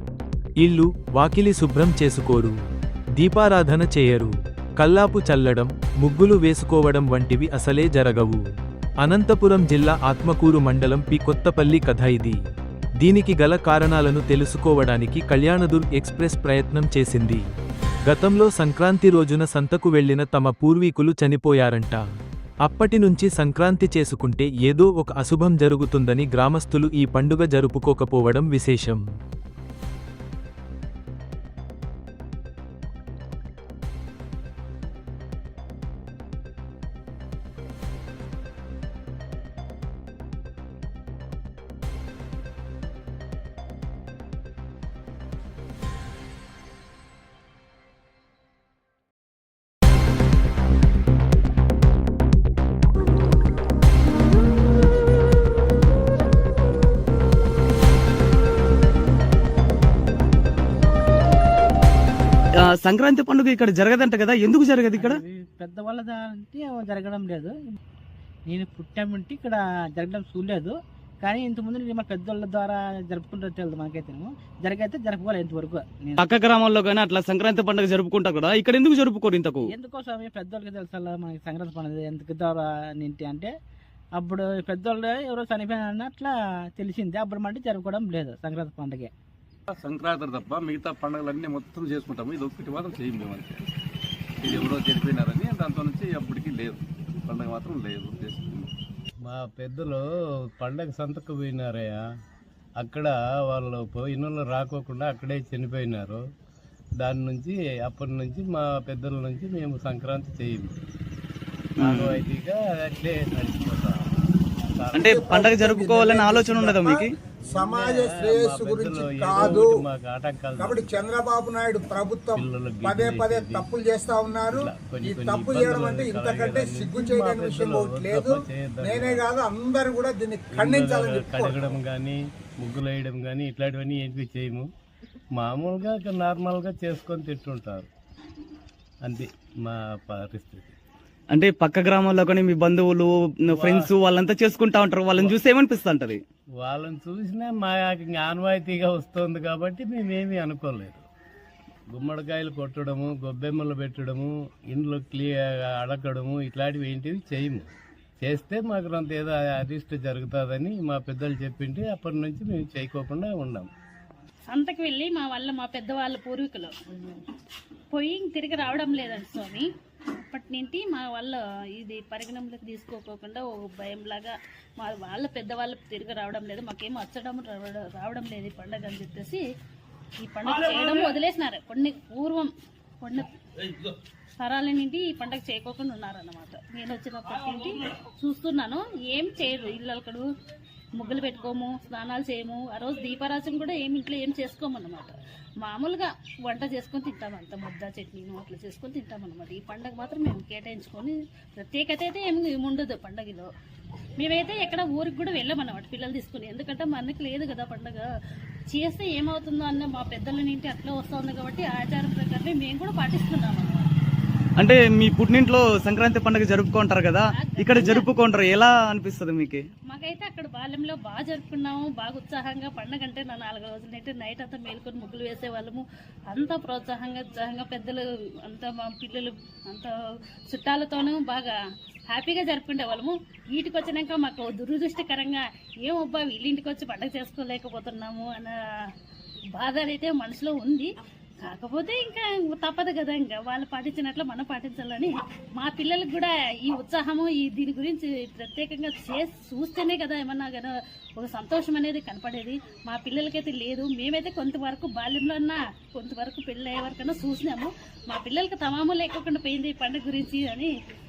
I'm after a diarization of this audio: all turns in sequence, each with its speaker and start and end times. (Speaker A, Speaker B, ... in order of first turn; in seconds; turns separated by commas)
Speaker A: 0.6-2.5, Speaker A: 3.2-8.4, Speaker A: 9.0-12.4, Speaker A: 13.0-17.4, Speaker A: 18.1-22.0, Speaker A: 22.6-29.0, Speaker B: 62.6-65.2, Speaker C: 64.9-67.8, Speaker C: 68.5-76.2, Speaker B: 76.2-79.7, Speaker C: 79.7-83.5, Speaker C: 84.2-89.1, Speaker D: 89.7-93.6, Speaker D: 94.4-98.7, Speaker E: 99.2-100.0, Speaker E: 100.6-102.0, Speaker E: 102.8-106.2, Speaker E: 107.0-110.7, Speaker E: 111.8-114.2, Speaker B: 111.8-112.2, Speaker E: 114.8-115.3, Speaker B: 114.9-117.1, Speaker F: 115.0-119.8, Speaker E: 117.5-121.1, Speaker F: 120.6-131.8, Speaker E: 122.3-123.7, Speaker E: 124.5-129.3, Speaker E: 130.5-134.7, Speaker E: 135.3-137.9, Speaker E: 139.0-140.8, Speaker B: 141.3-146.2, Speaker E: 143.5-143.9, Speaker E: 145.1-145.4, Speaker E: 146.6-151.1, Speaker E: 151.9-163.7, Speaker G: 164.5-166.7, Speaker G: 167.9-179.4, Speaker G: 180.2-183.4, Speaker G: 184.4-190.3, Speaker G: 190.9-203.5, Speaker G: 204.2-208.1, Speaker G: 208.7-214.0, Speaker B: 214.6-219.6, Speaker G: 217.3-218.1, Speaker G: 219.9-229.9, Speaker G: 230.5-231.6, Speaker G: 232.1-238.6, Speaker G: 239.5-260.7